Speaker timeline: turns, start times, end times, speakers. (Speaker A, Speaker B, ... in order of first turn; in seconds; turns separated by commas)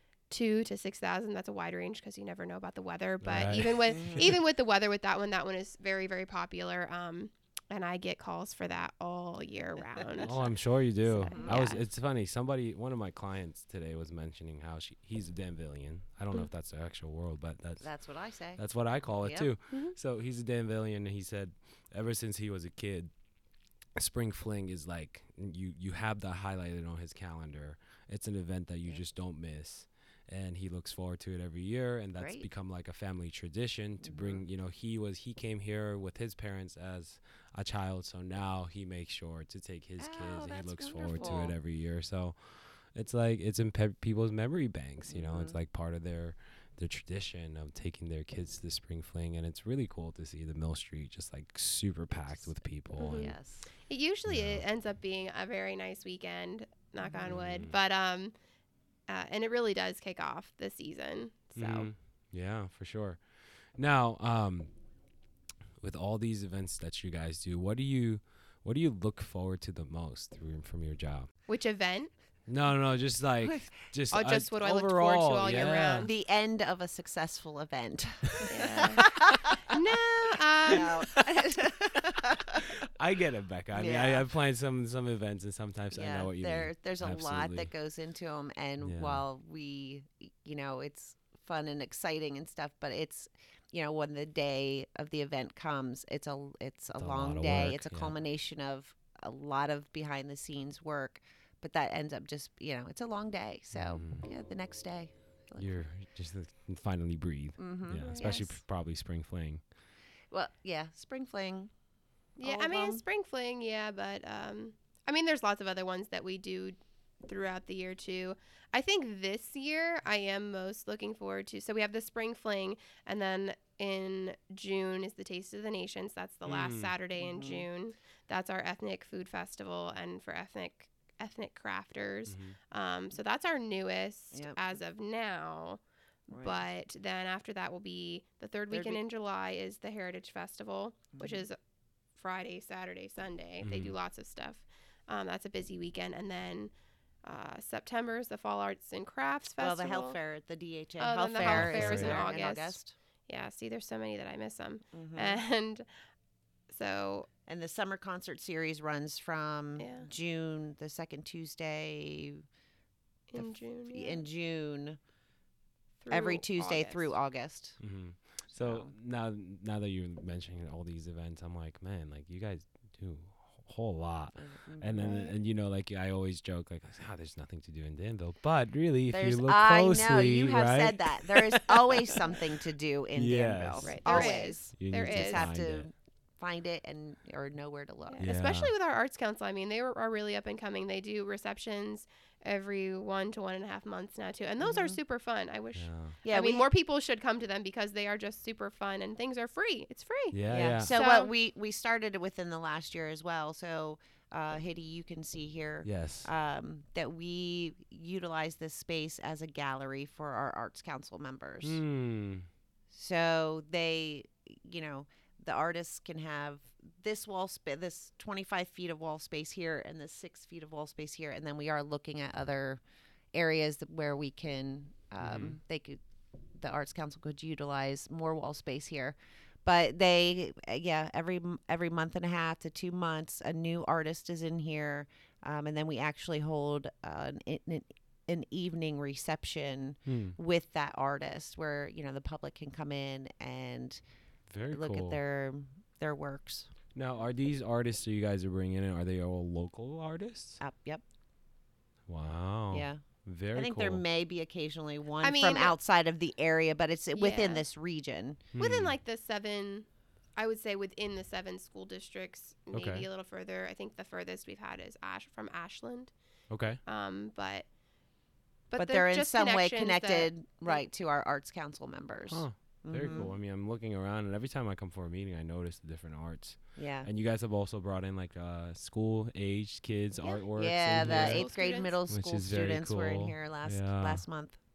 Speaker A: 0.3-11.8, Speaker B: 3.2-4.3, Speaker C: 4.0-4.2, Speaker B: 10.2-23.2, Speaker C: 11.2-11.7, Speaker C: 17.8-19.5, Speaker B: 23.9-53.4, Speaker C: 32.2-32.5, Speaker C: 34.0-34.4, Speaker C: 40.0-41.6, Speaker C: 45.1-45.6, Speaker C: 52.3-53.7, Speaker A: 53.0-58.4, Speaker B: 54.3-54.6, Speaker C: 57.0-57.3, Speaker B: 57.2-57.7, Speaker A: 59.1-61.9, Speaker B: 61.5-64.8, Speaker B: 65.8-71.5, Speaker A: 71.5-72.1, Speaker B: 72.5-76.1, Speaker C: 73.4-73.7, Speaker A: 74.1-76.1, Speaker C: 76.0-79.5, Speaker A: 78.5-80.9, Speaker C: 80.7-82.7, Speaker B: 80.8-87.7, Speaker C: 83.7-84.2, Speaker C: 85.9-105.8, Speaker B: 88.8-89.2, Speaker B: 97.0-98.1, Speaker B: 103.7-104.3, Speaker B: 105.5-109.7, Speaker C: 107.6-108.4, Speaker A: 108.0-108.6, Speaker C: 110.3-111.7, Speaker A: 112.4-141.6, Speaker C: 112.4-113.0, Speaker B: 126.4-126.9, Speaker C: 127.2-127.7, Speaker B: 132.3-132.6, Speaker C: 134.3-134.8, Speaker C: 136.3-136.7, Speaker C: 138.7-139.0, Speaker C: 141.1-141.5, Speaker A: 142.1-150.2, Speaker B: 143.6-143.9, Speaker C: 149.6-152.9, Speaker A: 151.0-156.1, Speaker B: 151.4-152.3, Speaker C: 154.9-155.4, Speaker A: 156.7-157.3, Speaker C: 157.4-162.4, Speaker A: 159.8-160.1, Speaker A: 163.3-164.2, Speaker C: 163.3-165.0, Speaker A: 166.0-167.1, Speaker C: 166.1-167.8, Speaker B: 167.8-182.2, Speaker C: 168.5-168.9, Speaker C: 174.3-175.3, Speaker A: 175.0-175.3, Speaker C: 179.1-188.3, Speaker B: 183.1-185.9, Speaker A: 183.8-185.5, Speaker A: 188.1-201.3, Speaker B: 188.2-188.7, Speaker C: 194.6-195.0, Speaker B: 195.7-196.2, Speaker C: 196.2-196.7, Speaker B: 200.3-200.9, Speaker C: 200.5-211.8, Speaker B: 205.8-206.3, Speaker B: 211.6-212.5, Speaker C: 212.9-222.8, Speaker C: 223.3-226.0, Speaker B: 225.2-225.6, Speaker C: 226.5-244.0, Speaker B: 240.1-240.3, Speaker B: 244.5-245.2, Speaker C: 244.7-246.7, Speaker B: 246.9-250.6, Speaker C: 250.6-251.0, Speaker B: 252.1-254.0, Speaker C: 252.7-258.5, Speaker A: 255.2-255.7, Speaker A: 257.1-257.6, Speaker B: 258.5-259.0, Speaker A: 258.6-266.2, Speaker B: 262.7-263.1, Speaker B: 266.5-266.8, Speaker A: 266.8-267.7, Speaker A: 268.7-270.8, Speaker C: 268.8-273.3, Speaker B: 272.3-284.3, Speaker C: 276.8-277.1, Speaker C: 280.6-284.6, Speaker A: 280.9-281.9